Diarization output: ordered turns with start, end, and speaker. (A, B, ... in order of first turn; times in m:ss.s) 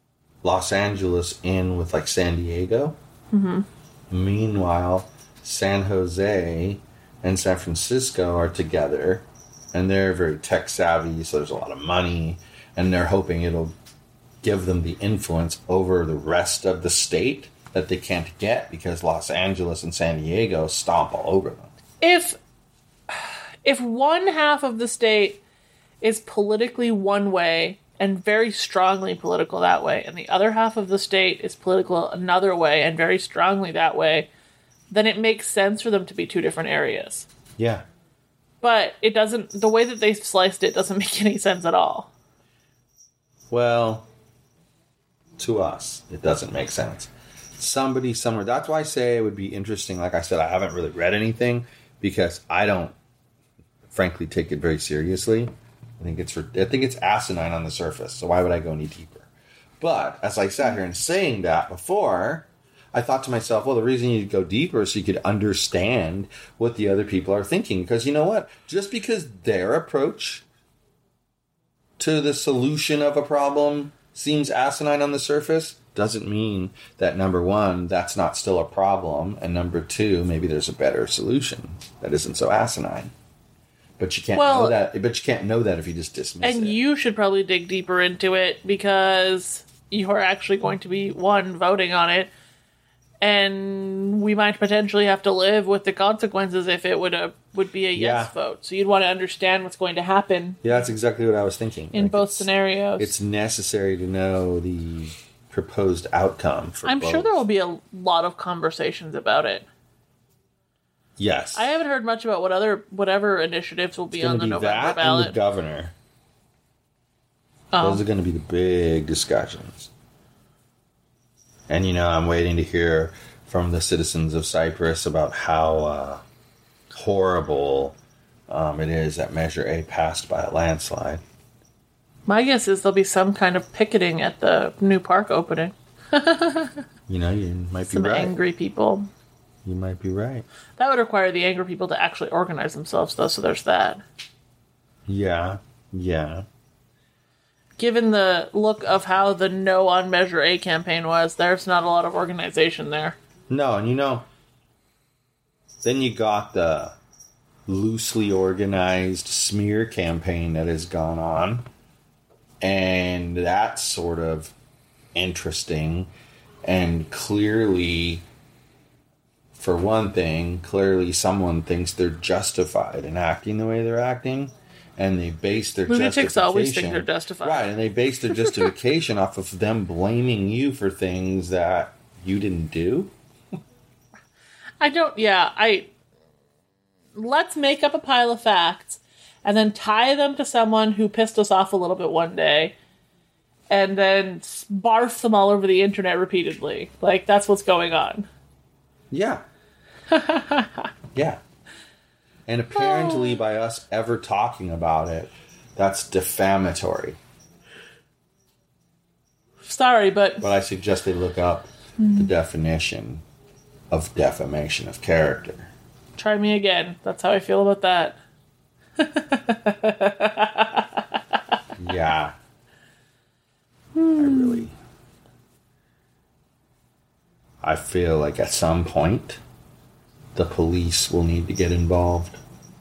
0:00.4-0:03.0 A
0:03.3-0:03.6 B
0:04.1-0:13.7 A
0:14.4-0:21.7 A
0:22.0-0:22.4 B
0:23.1-0:25.4 B
0:26.0-0:34.3 B
0:34.9-0:37.3 B
0:37.6-0:37.8 A
0:38.6-0:42.1 B
0:43.5-0:44.1 A
0:45.4-0:52.9 A
0:53.9-0:59.3 A
0:59.8-1:10.4 A
1:12.0-1:23.1 A
1:24.0-1:26.8 A
1:24.3-1:24.8 B
1:26.4-1:32.3 B
1:33.2-1:40.6 B
1:37.9-1:38.3 A
1:40.6-1:47.4 A
1:41.9-1:43.1 B
1:46.8-1:49.6 B
1:51.2-1:51.7 A
1:51.5-1:55.4 B
1:54.1-1:55.9 A
1:57.7-1:58.0 B
1:57.8-1:59.9 A
2:01.7-2:06.2 A
2:06.9-2:08.0 A
2:08.5-2:11.2 A
2:12.3-2:16.8 B
2:17.1-2:18.3 A
2:17.9-2:19.1 B
2:19.6-2:20.4 A
2:20.8-2:24.0 B
2:25.1-2:26.4 A
2:27.8-2:33.2 B
2:33.5-2:34.3 A
2:35.8-2:37.0 A
2:37.7-2:41.7 A
2:42.6-2:44.5 A
2:45.1-2:46.1 A
2:46.6-2:48.2 A
2:49.6-3:03.1 A
2:55.9-2:57.7 B
3:04.8-3:05.9 B
3:07.2-3:12.7 B
3:13.7-3:18.3 B
3:19.1-3:19.4 A
3:20.1-3:20.9 B
3:21.1-3:21.4 A
3:22.5-3:27.2 A
3:22.8-3:23.4 B
3:29.6-3:30.5 B
3:30.4-3:33.2 A
3:32.0-3:32.3 B
3:33.9-3:35.7 A
3:36.2-3:38.2 B
3:39.0-3:41.2 B
3:41.8-3:42.4 A
3:43.9-3:44.7 B
3:44.2-3:44.7 A
3:47.6-3:49.4 A
3:50.3-3:52.4 A